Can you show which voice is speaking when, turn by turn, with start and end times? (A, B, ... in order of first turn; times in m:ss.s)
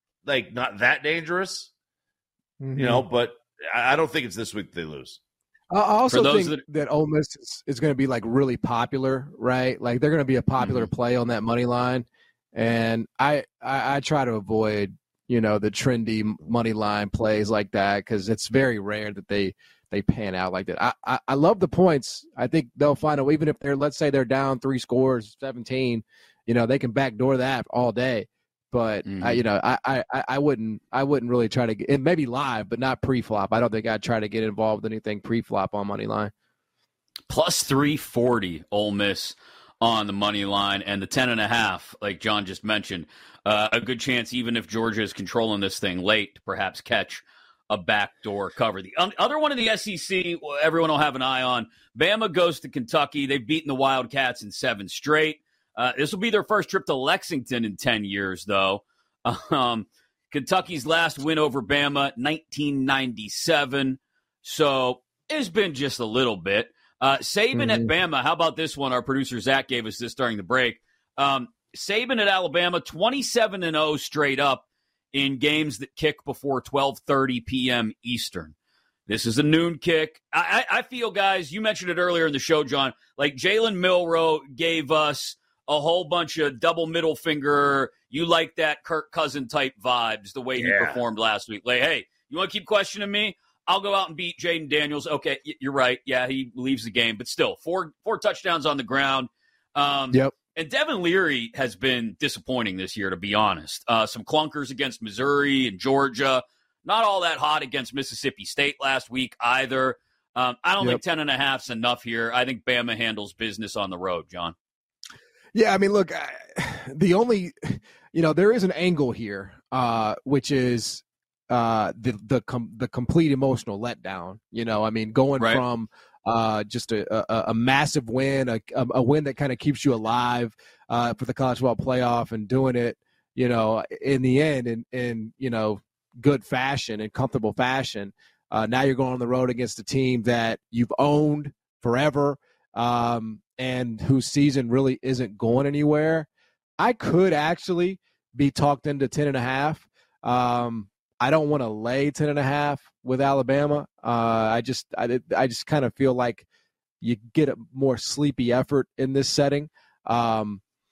0:00.2-0:01.7 A
0:02.6-0:03.0 B
0:02.8-0:05.2 A
0:05.7-0:36.3 B
0:06.1-0:06.6 C
0:10.6-0:10.9 C
0:29.0-0:29.4 C
0:37.3-1:18.5 C
1:07.5-1:07.9 B
1:19.1-1:54.5 C
1:30.6-1:31.0 A
1:55.5-2:26.3 B
2:26.8-2:36.4 B
2:37.0-2:40.6 B